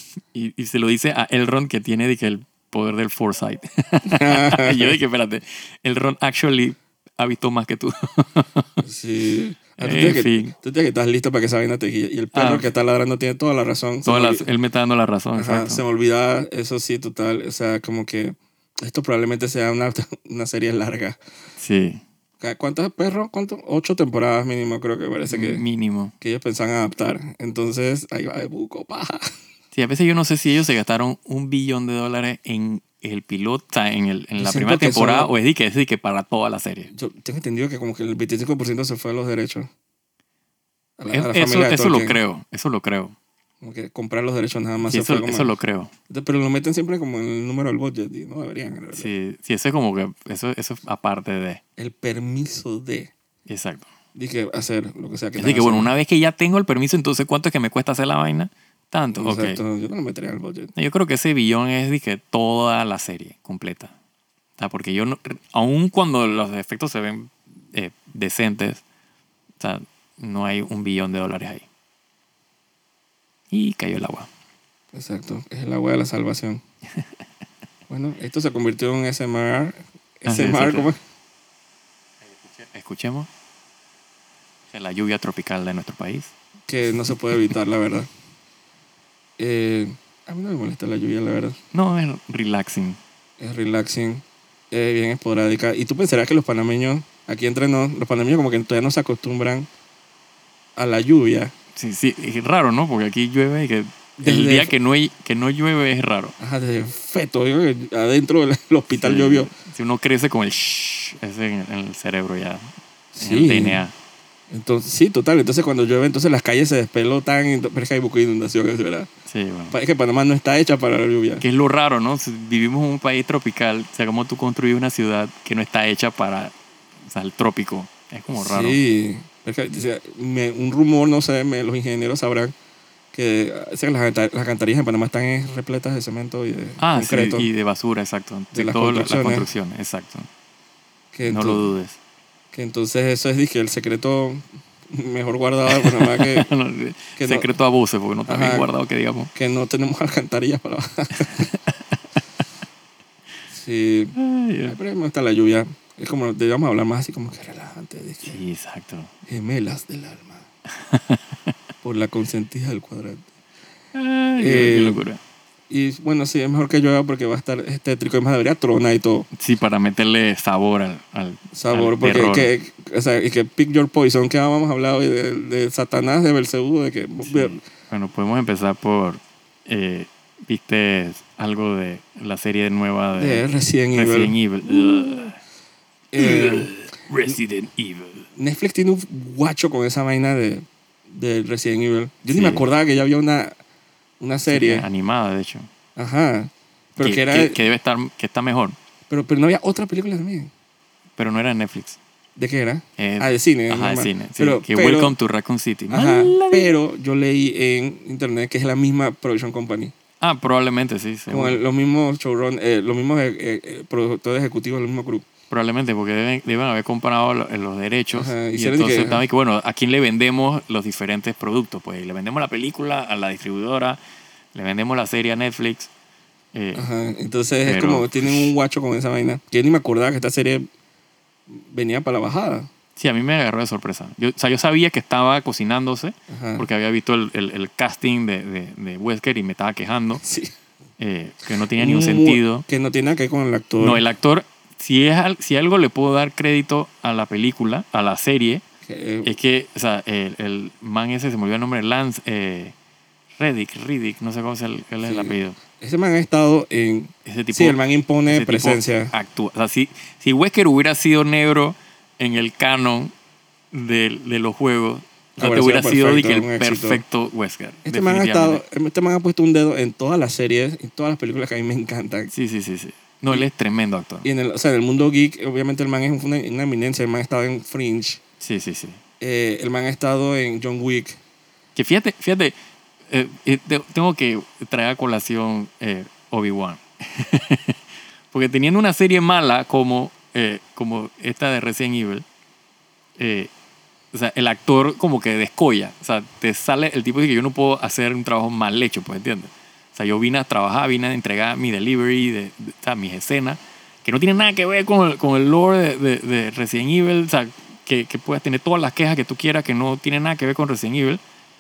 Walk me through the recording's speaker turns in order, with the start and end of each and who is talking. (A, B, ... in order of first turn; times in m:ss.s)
0:00.2-0:08.7 A
0:04.0-0:05.0 B
0:08.8-0:14.5 B
0:09.8-0:10.5 A
0:12.3-0:12.7 A
0:14.0-0:15.8 A
0:15.4-0:21.2 B
0:21.6-0:22.0 A
0:22.4-0:25.6 B
0:25.3-0:26.1 A
0:26.2-0:29.2 B
0:29.7-0:36.9 A
0:34.4-0:35.3 B
0:36.9-0:39.7 B
0:41.0-0:42.2 B
0:41.1-0:43.2 A
0:43.6-0:45.5 B
0:44.8-0:45.9 A
0:46.1-0:49.1 B
0:48.9-0:51.6 A
0:51.8-0:53.1 B
0:53.5-0:53.9 A
0:54.2-0:55.9 B
0:55.4-0:59.6 A
0:59.1-1:00.7 B
1:00.8-1:03.9 A
1:04.6-1:08.8 A
1:09.6-1:11.6 A
1:13.5-1:14.3 A
1:14.9-1:16.6 B
1:17.9-1:21.0 B
1:20.3-1:20.9 A
1:22.2-1:23.3 A
1:24.7-1:26.3 A
1:26.7-1:28.1 B
1:29.4-1:31.6 B
1:31.7-1:33.0 A
1:33.4-1:39.7 B
1:40.8-1:41.5 B
1:41.7-1:46.4 A
1:44.2-1:44.7 B
1:46.4-1:49.5 B
1:49.0-1:53.9 A
1:53.1-1:53.8 B
1:54.5-1:59.1 B
1:59.3-1:59.8 A
1:59.7-2:01.4 B
2:01.4-2:08.8 A
2:08.3-2:12.6 B
2:13.1-2:17.5 B
2:16.8-2:20.3 A
2:18.5-2:19.5 B
2:21.1-2:21.7 B
2:21.3-2:22.0 A
2:22.5-2:26.5 B
2:25.7-2:29.3 A
2:27.2-2:27.5 B
2:28.3-2:28.7 B
2:29.4-2:31.5 B
2:31.3-2:32.0 A
2:33.5-2:34.2 B
2:34.2-2:34.8 A
2:34.7-2:38.4 B
2:38.2-2:39.1 A
2:39.3-2:40.4 B
2:40.7-2:41.5 A
2:41.8-2:43.3 B
2:43.9-2:45.2 A
2:44.4-2:45.0 B
2:45.7-2:49.3 B
2:49.3-2:52.5 A
2:51.5-2:57.6 B
2:57.2-3:05.4 A
3:03.2-3:05.3 B
3:06.1-3:06.7 B
3:06.2-3:08.3 A
3:08.4-3:13.6 B
3:12.3-3:12.6 A
3:14.2-3:14.9 B
3:14.5-3:15.7 A
3:16.0-3:17.6 B
3:17.0-3:18.8 A
3:19.1-3:20.5 B
3:21.2-3:22.0 A
3:22.4-3:25.2 B
3:23.0-3:26.8 A
3:25.9-3:29.9 B
3:30.2-3:31.6 A
3:31.3-3:35.3 B
3:35.5-3:44.0 A
3:38.1-3:39.3 B
3:44.5-3:45.9 A
3:46.5-3:46.9 A
3:46.8-3:50.7 B
3:47.6-3:48.5 A
3:51.5-3:52.7 B
3:53.0-4:00.2 A
3:56.3-3:56.7 B
4:00.2-4:00.5 B
4:01.0-4:02.6 A
4:01.7-4:04.0 B
4:03.8-4:08.6 A
4:08.8-4:09.4 B
4:09.2-4:12.7 A
4:13.4-4:15.6 A
4:15.0-4:19.1 B
4:17.3-4:23.1 A
4:23.7-4:28.6 A
4:25.4-4:27.0 B
4:27.8-4:32.3 B
4:32.3-4:34.3 A
4:34.2-4:38.2 B
4:38.4-4:39.0 A
4:39.2-4:41.2 B
4:41.8-4:42.6 A
4:43.1-4:47.8 A
4:48.3-4:52.2 A
4:53.2-4:53.5 A
4:54.1-5:11.2 A